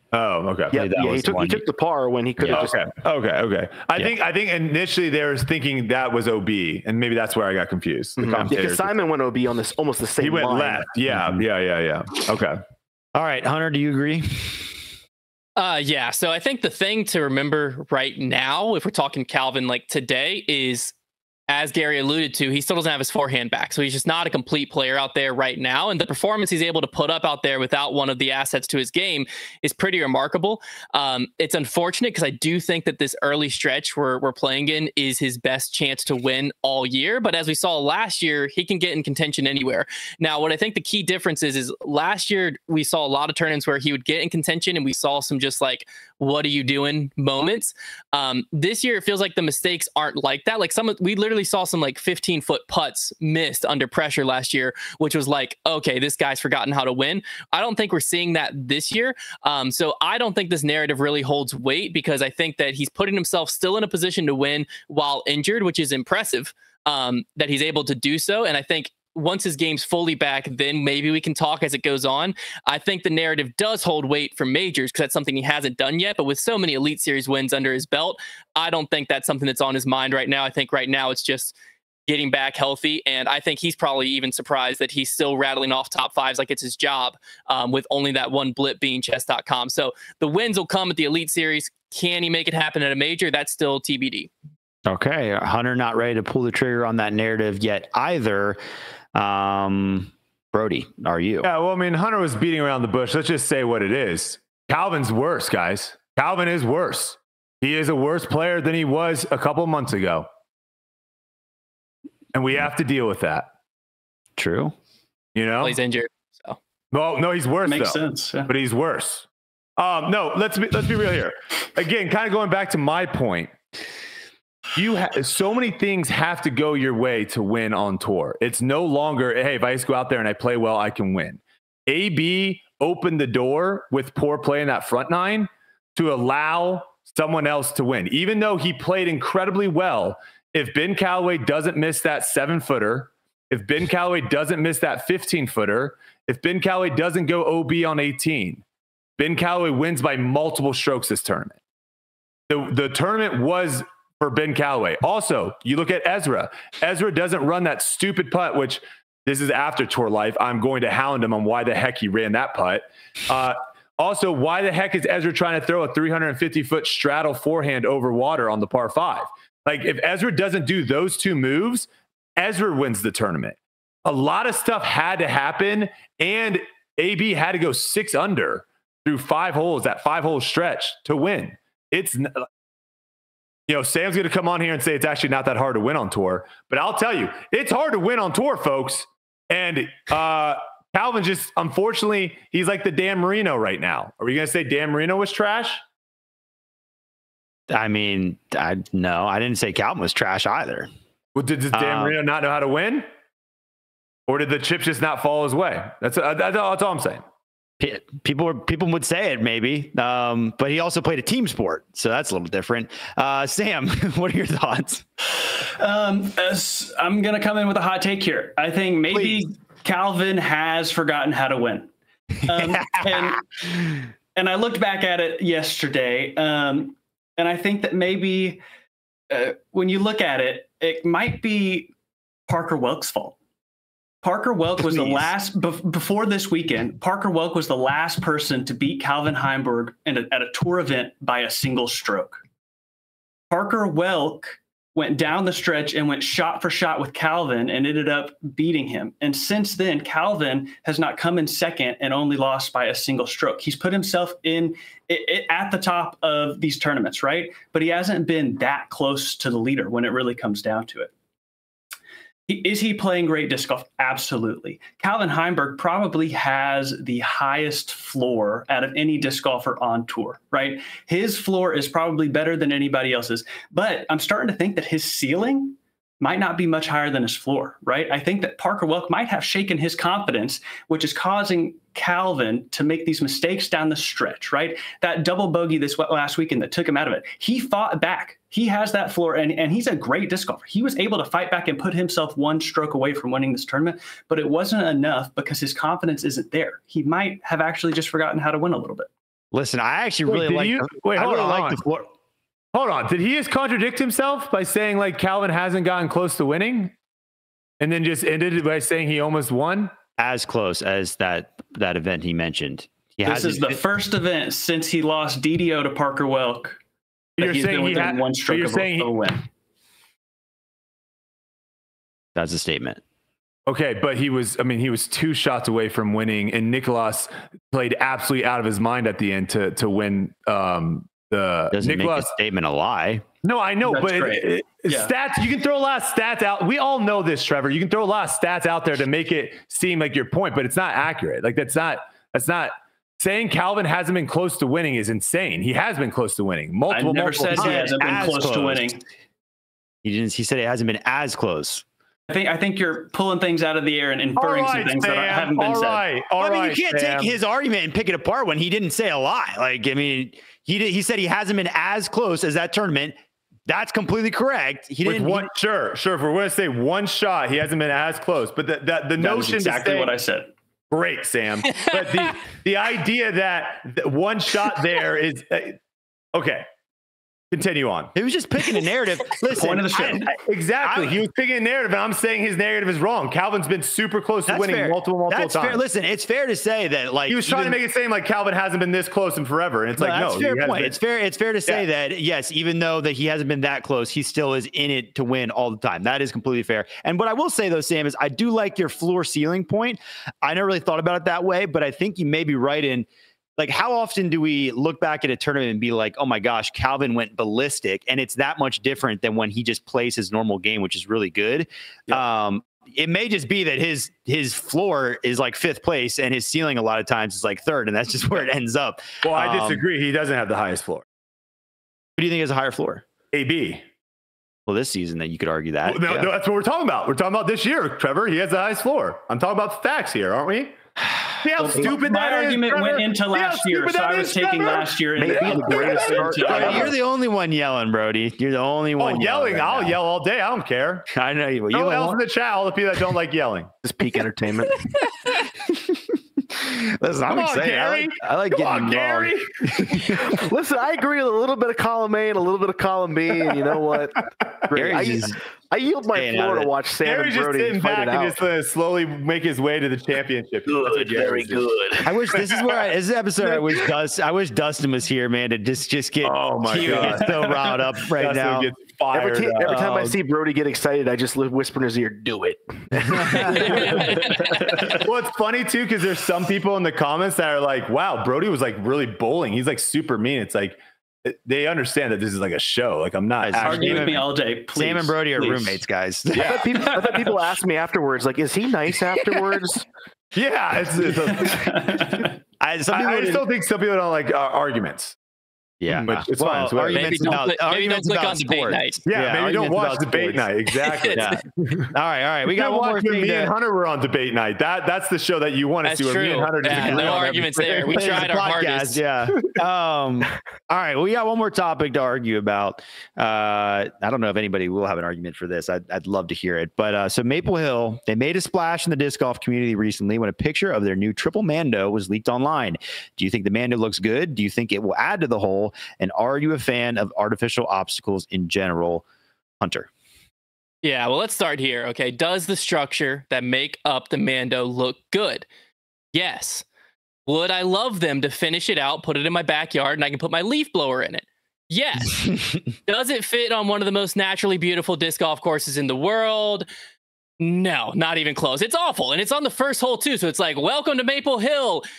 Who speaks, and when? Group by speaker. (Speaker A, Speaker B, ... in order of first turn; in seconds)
Speaker A: 0.1-0.8, 2.5-8.9, 10.2-12.6, 101.4-110.3, 112.3-113.5, 115.3-115.8, 116.9-119.2, 119.8-123.5, 124.7-148.6, 149.2-151.6, 152.5-182.4, 183.7-195.8, 201.3-203.1, 204.3-207.2, 300.3-301.8, 302.7-306.9, 307.8-309.9, 317.4-319.1, 323.7-332.3, 333.4-348.7, 354.4-357.3, 365.0-370.1, 370.9-375.8, 376.3-376.7, 377.5-378.1, 380.3-385.8, 387.3-390.9, 419.2-421.0, 423.3-423.8, 425.8-430.8, 431.4-436.9, 439.0-441.1, 441.7-443.7, 447.3-450.4, 457.0-462.8, 466.2-469.7, 473.6-474.0, 474.9-484.2, 490.3-492.0, 492.9-495.1, 496.0-497.4, 499.1-501.9, 502.5-508.3
Speaker B: 0.7-2.8, 8.2-10.9, 435.1-436.9, 443.8-444.8, 450.0-458.4, 460.7-462.0, 469.1-474.9, 486.4-489.9
Speaker C: 0.7-1.6, 2.4-2.7, 8.2-8.5, 11.1-11.4, 13.1-14.8, 94.9-98.6, 99.1-101.5, 114.4-114.7, 197.7-200.9, 201.7-202.2, 207.8-215.0, 219.1-219.4, 222.5-224.0, 299.5-302.1, 310.2-313.8, 322.3-323.0, 331.7-333.2, 347.5-348.9, 350.0-351.8, 356.4-365.5, 378.1-380.3, 380.8-381.2, 384.5-387.8, 389.9-419.8, 422.2-423.0, 424.7-426.3, 436.4-440.0, 441.1-442.2, 445.2-450.2, 454.7-455.4, 456.1-456.7, 462.0-468.7, 469.6-470.1, 472.9-473.8, 483.4-486.7, 492.6-493.4, 495.8-500.5, 501.1-503.5, 506.6-529.0, 529.6-529.9, 542.3-542.6
Speaker D: 15.6-20.9, 21.5-81.5, 82.1-94.3, 115.6-116.6, 473.5-474.4, 496.9-499.0, 500.9-501.2, 505.8-509.0, 530.8-535.5, 536.1-536.6, 537.3-546.6, 547.4-551.8
Speaker E: 117.7-118.5, 215.8-221.9, 222.4-223.5, 224.3-228.6, 229.3-231.9, 232.5-233.3, 234.2-242.4, 243.5-261.1, 262.5-299.1, 313.2-316.8, 317.4-319.4, 333.8-335.1, 346.9-349.0, 352.3-356.0, 369.2-370.5, 379.5-380.4, 431.6-436.9, 466.9-467.6, 474.4-475.1, 483.6-485.8, 486.8-487.2, 491.1-492.4